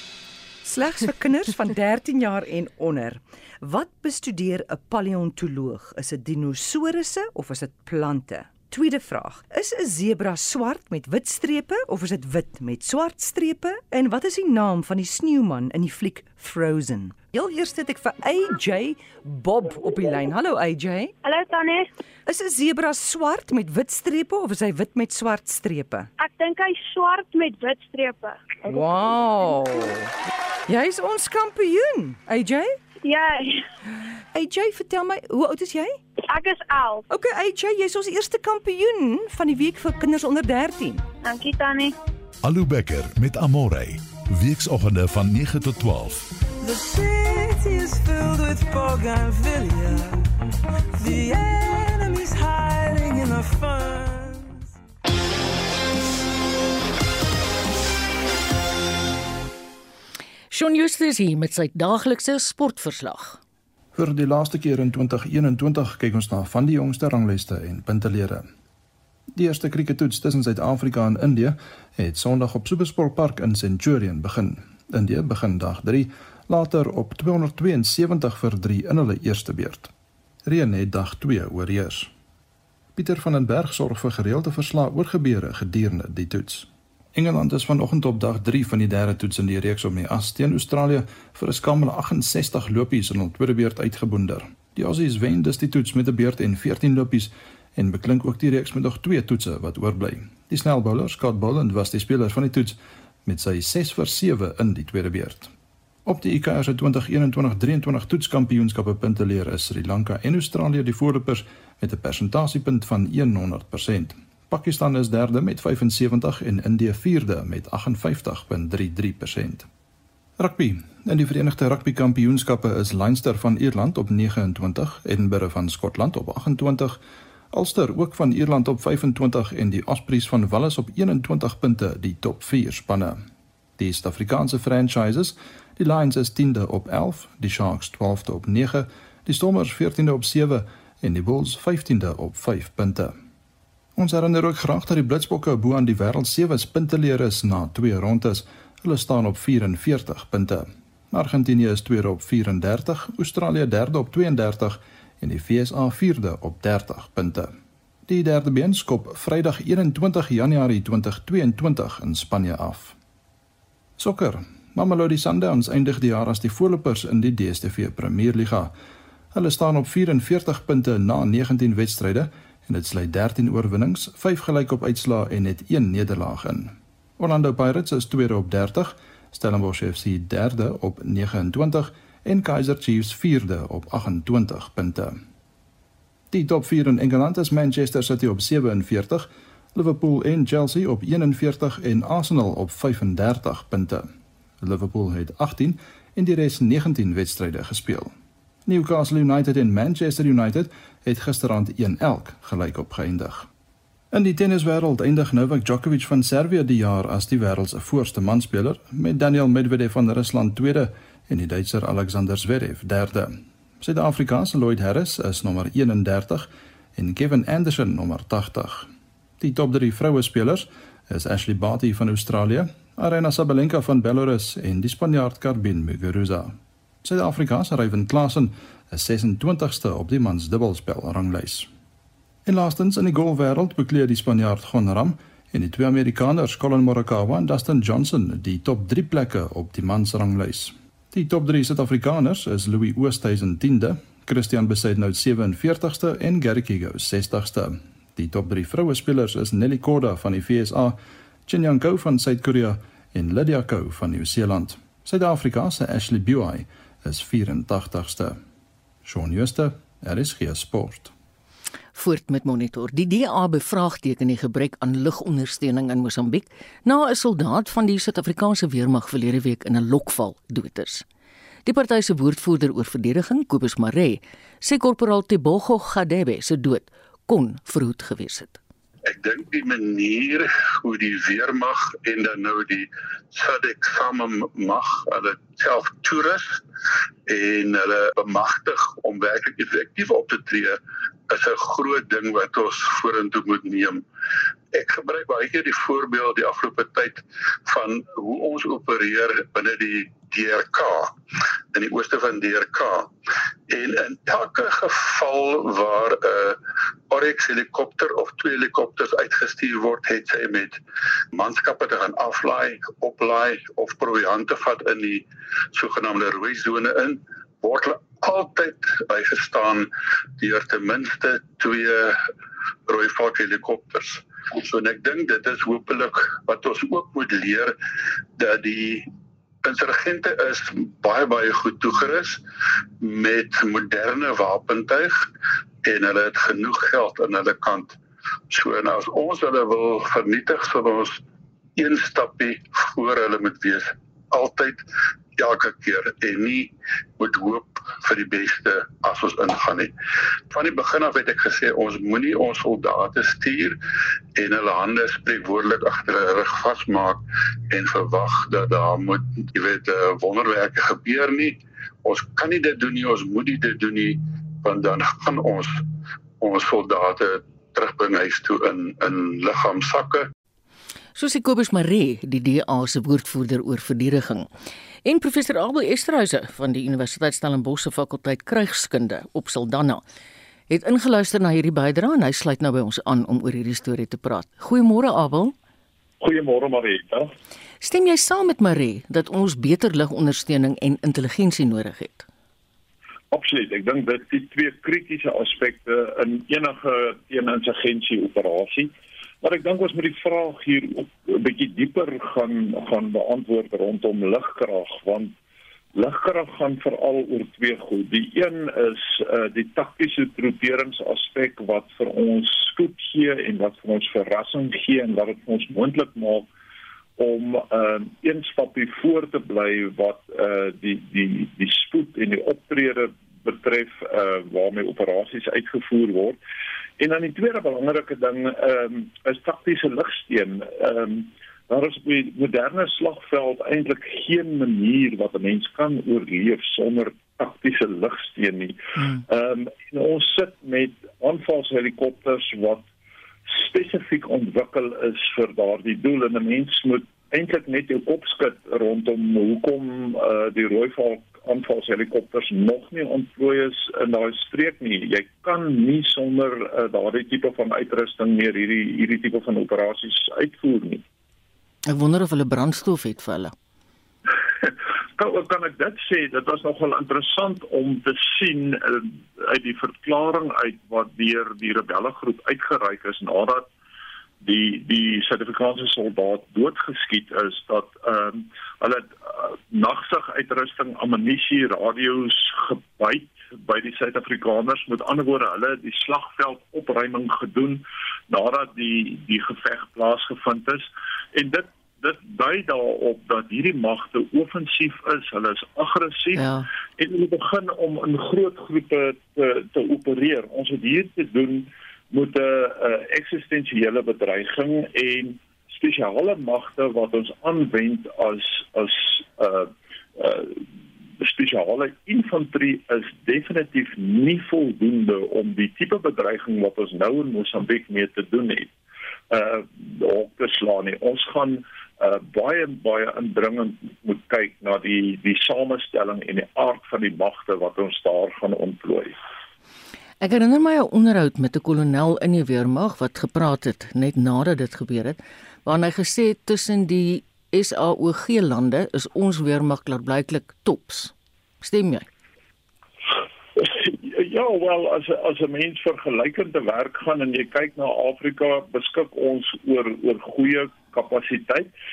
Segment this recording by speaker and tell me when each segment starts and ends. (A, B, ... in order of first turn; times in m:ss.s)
0:00.6-0:21.1 A
0:21.2-0:21.9 B
0:22.2-0:26.1 A
0:26.2-0:28.9 B
0:28.6-0:30.1 A
0:30.7-0:32.8 A
0:33.0-0:33.6 B
0:34.3-0:36.0 A
0:36.3-0:37.0 B
0:37.1-0:41.1 A
0:41.2-0:41.9 B
0:42.4-0:46.3 C
0:46.6-0:50.3 D
0:51.0-0:54.7 D
1:00.5-1:03.4 E
1:03.9-1:08.4 F
1:09.4-1:19.9 F
1:20.4-1:22.1 F
1:23.0-1:45.5 F
1:46.0-1:59.7 F
2:00.4-2:07.0 F
2:07.5-2:13.2 F
2:13.8-2:23.1 F
2:24.0-2:37.5 F
2:38.1-2:42.9 F
2:44.0-2:48.7 F
2:49.3-3:05.2 F
3:06.3-3:14.1 F
3:14.6-3:18.1 F
3:18.7-3:23.5 F
3:24.1-3:38.9 F
3:39.4-3:51.7 F
3:52.4-4:18.4 F
4:19.0-4:21.1 F
4:21.9-4:31.0 E
4:31.6-4:38.6 E
4:39.0-4:46.6 G
4:47.3-4:54.0 G
4:54.7-5:01.1 G
5:01.7-5:03.1 G
5:03.7-5:06.6 G
5:07.1-5:10.8 G
5:11.3-5:22.2 G
5:22.9-5:27.7 G
5:28.4-5:29.1 G
5:29.6-5:32.4 G
5:33.0-5:35.3 G
5:35.8-5:38.0 G
5:38.5-5:41.2 G
5:41.8-5:44.8 G
5:45.4-5:49.9 G
5:50.5-5:53.8 G
5:54.4-6:05.8 G
6:06.4-6:10.3 G
6:11.2-6:14.5 E
6:15.0-6:20.0 E
6:20.7-6:25.5 E
6:26.2-6:27.3 H
6:27.8-6:32.3 E
6:33.3-6:45.3 H
6:46.0-6:56.5 H
6:57.2-7:06.4 H
7:07.0-7:22.8 H
7:23.5-7:41.0 H
7:41.8-7:43.5 E
7:44.6-7:53.7 H
7:54.4-8:16.4 H
8:16.3-8:16.6 E
8:17.0-8:30.6 H
8:31.2-8:38.7 H
8:39.3-8:49.2 H
8:50.2-9:02.1 E
9:03.6-9:11.7 H